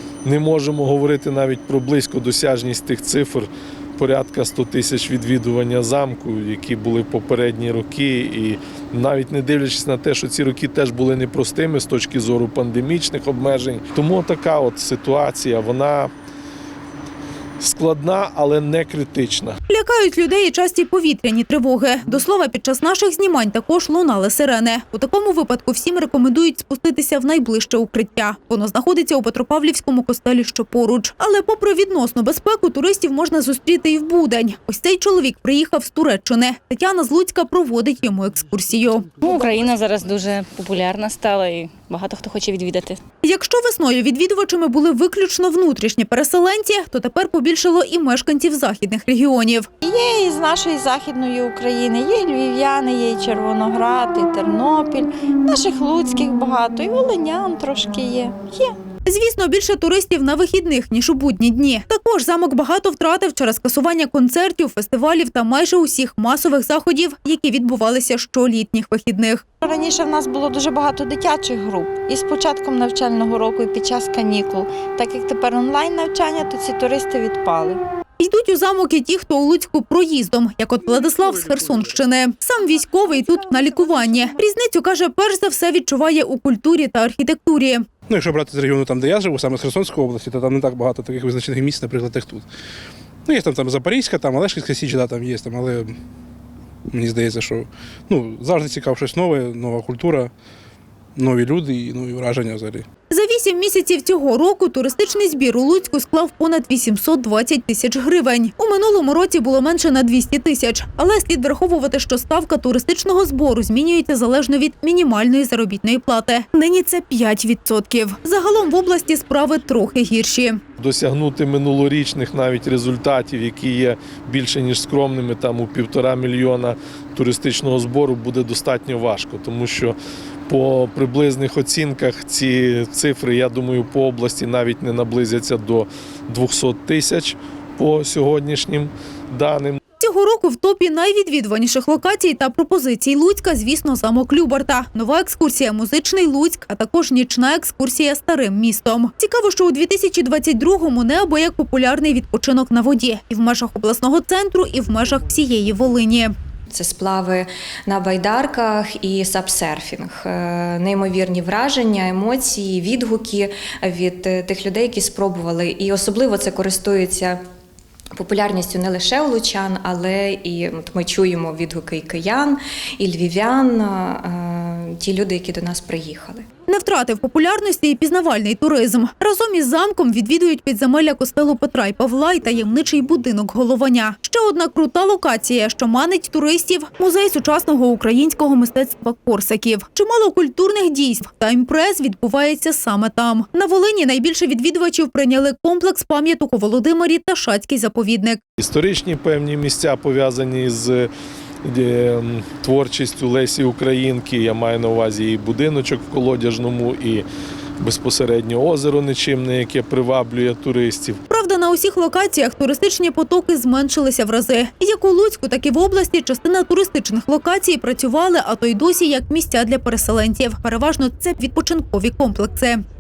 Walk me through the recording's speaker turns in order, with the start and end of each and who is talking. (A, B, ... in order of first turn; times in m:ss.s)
0:00.2-0:16.1 A
0:17.6-0:19.6 A
0:19.7-0:39.1 B
0:39.2-0:43.0 C
0:43.2-0:49.7 B
0:49.8-0:58.8 D
0:59.0-1:09.5 B
1:09.6-1:17.8 D
1:18.2-1:27.8 B
1:22.6-1:24.4 D
1:28.1-1:32.5 E
1:33.2-1:36.0 E
1:36.9-1:40.3 E
1:41.2-1:42.9 E
1:43.1-2:00.6 B
2:00.8-2:10.0 A
2:10.5-2:19.8 A
2:20.0-2:36.3 B
2:36.7-2:47.4 F
2:48.2-2:56.4 F
2:56.7-3:18.4 B
3:18.6-3:21.1 A
3:21.6-3:27.3 A
3:27.8-3:31.2 A
3:31.3-3:42.8 B